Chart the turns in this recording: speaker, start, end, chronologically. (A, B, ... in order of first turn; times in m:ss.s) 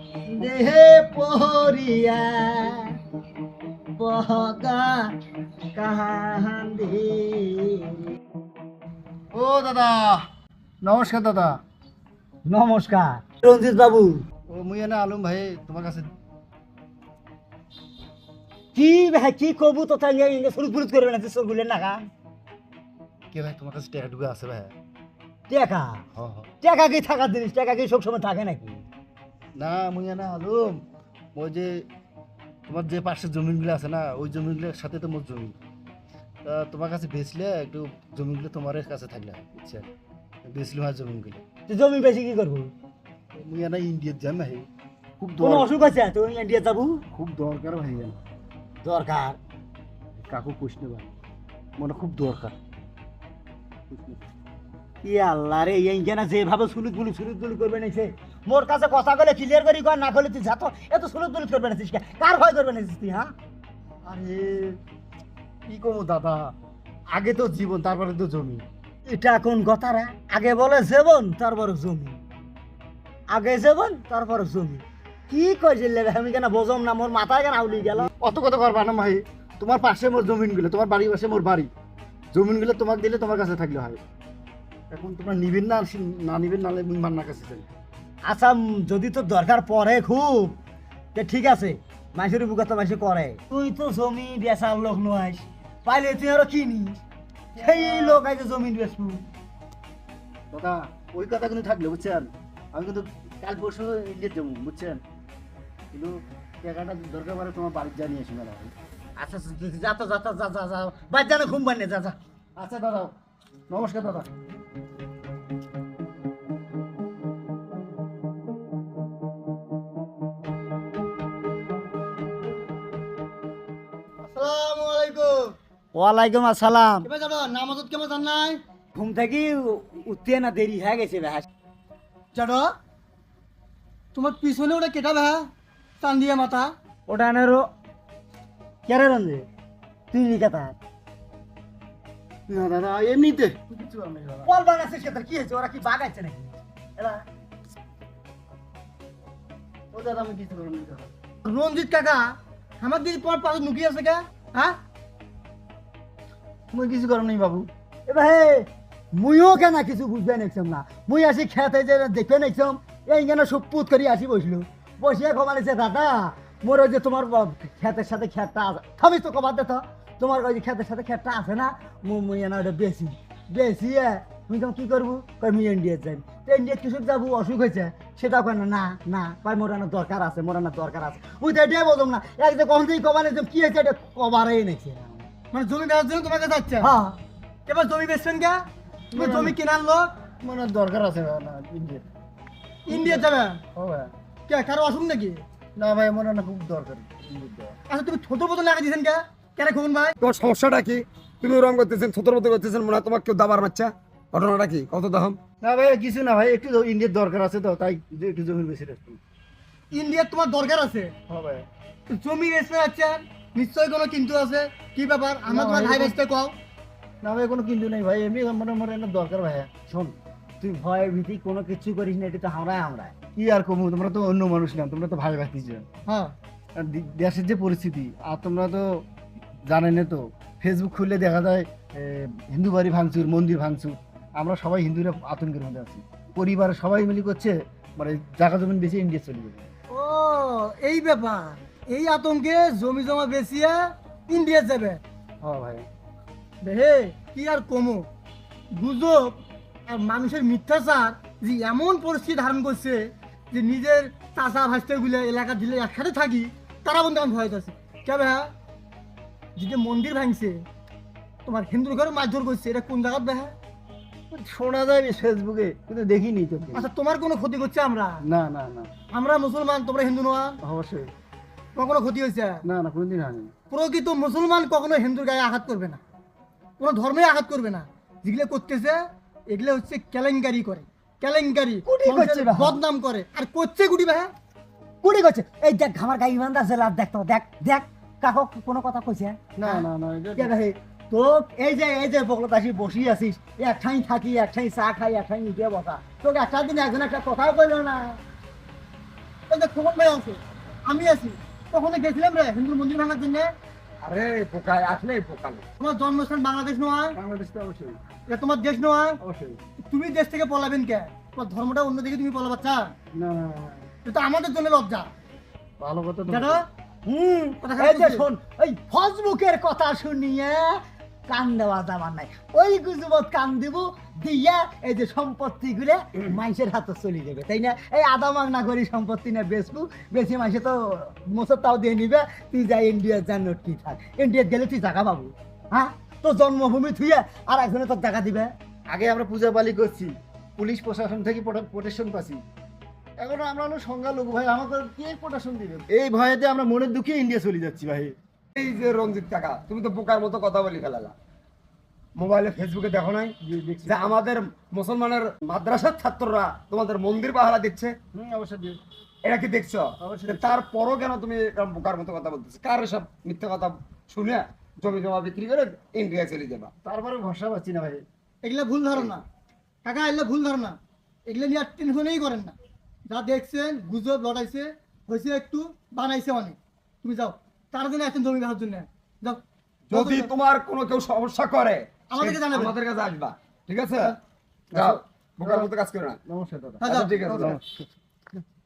0:00.2-0:02.9 A
0:04.0-0:05.1 A
0:05.7-0:08.0 A
0:09.3-0:10.3 B
0:10.8-0:11.6 B
0:12.5-0:14.2 A
0:14.5-0:16.1 B
0:18.7-0:22.1 A
0:23.3-0:24.7 B
0:25.5-0:26.0 A
0:26.1-0:26.5 B
0:26.6-0:28.9 A
0:29.6-0:30.8 B
0:31.4-0:31.9 B
0:32.7-0:35.6 B
0:36.4-0:39.9 B
0:40.4-0:41.4 B
0:41.7-0:42.7 A
0:43.3-0:44.7 B
0:45.2-0:45.7 B
0:45.4-0:47.0 A
0:47.1-0:48.2 B
0:48.8-0:49.4 A
0:50.2-0:51.1 B
0:51.8-0:52.6 B
0:53.9-0:54.2 B
0:55.0-1:03.3 A
1:04.0-1:04.8 B
1:05.7-1:06.5 B
1:07.1-1:08.6 B
1:09.1-1:12.2 A
1:13.3-1:18.1 A
1:18.0-1:21.7 B
1:22.3-1:24.0 B
1:24.9-1:27.7 B
1:28.3-1:30.6 A
1:31.2-1:37.0 A
1:37.6-1:39.2 A
1:37.6-1:38.2 B
1:40.5-1:45.0 B
1:45.9-1:48.7 B
1:49.2-1:52.2 A
1:52.6-1:53.1 B
1:53.7-1:54.3 B
2:04.2-2:05.6 C
2:05.9-2:07.1 A
2:07.0-2:08.6 C
2:08.9-2:11.5 A
2:12.3-2:12.8 C
2:14.1-2:15.5 C
2:16.0-2:16.7 C
2:17.1-2:17.7 A
2:18.9-2:19.5 A
2:20.1-2:20.8 A
2:22.5-2:24.5 B
2:24.4-2:27.2 A
2:29.9-2:31.1 B
2:31.4-2:34.8 C
2:36.7-2:37.7 B
2:38.1-3:05.3 A
3:05.5-3:08.6 C
3:09.1-3:10.1 C
3:09.1-3:09.6 B
3:10.4-3:12.0 B
3:12.9-3:13.6 C
3:12.9-3:14.1 B
3:14.5-3:15.4 C
3:15.8-3:17.8 B
3:17.9-3:20.2 C
3:20.2-3:25.4 D
3:25.6-3:29.2 B
3:29.9-3:31.1 C
3:31.3-3:31.7 B
3:32.1-3:36.5 C
3:35.5-3:36.2 B
3:37.2-3:39.8 B
3:39.9-3:43.2 A
3:43.4-3:45.8 B
3:46.1-3:46.4 C
3:46.8-3:49.1 B
3:49.7-3:59.7 B
3:59.9-4:05.0 C
4:05.4-4:05.8 B
4:06.6-4:08.1 C
4:08.7-4:18.5 C
4:19.6-4:20.6 C
4:21.5-4:23.5 C
4:24.3-4:26.9 B
4:26.7-4:28.2 C
4:28.2-4:28.9 B
4:29.1-4:30.6 C
4:30.6-4:31.1 B
4:31.8-4:32.6 C
4:32.6-4:33.5 B
4:33.7-4:36.0 C
4:36.8-4:44.3 C
4:41.9-4:42.8 A
4:45.0-4:49.9 A
4:49.6-4:50.5 B
4:50.4-4:58.2 A
4:59.5-5:03.5 C
5:04.0-5:05.6 D
5:05.8-5:07.2 C
5:07.2-5:08.0 B
5:08.3-5:09.2 C
5:09.2-5:09.6 B
5:09.8-5:12.9 C
5:13.1-5:13.9 B
5:14.0-5:15.1 C
5:15.8-5:16.6 B
5:16.3-5:16.6 C
5:17.1-5:38.5 A
5:17.6-5:18.3 C
5:38.9-5:42.4 B
5:43.2-5:48.1 B
5:48.6-5:51.1 D
5:52.2-5:53.4 D
5:53.4-5:54.2 B
5:53.9-5:58.0 D
5:58.1-5:58.8 B
5:59.2-6:06.7 D
6:00.0-6:00.6 B
6:06.8-6:08.0 B
6:08.4-6:09.2 C
6:09.8-6:12.6 C
6:13.1-6:20.3 C
6:19.9-6:24.2 D
6:22.1-6:22.7 C
6:24.7-6:25.7 B
6:24.7-6:26.2 D
6:26.2-6:27.9 B
6:26.8-6:27.5 C
6:26.8-6:27.6 D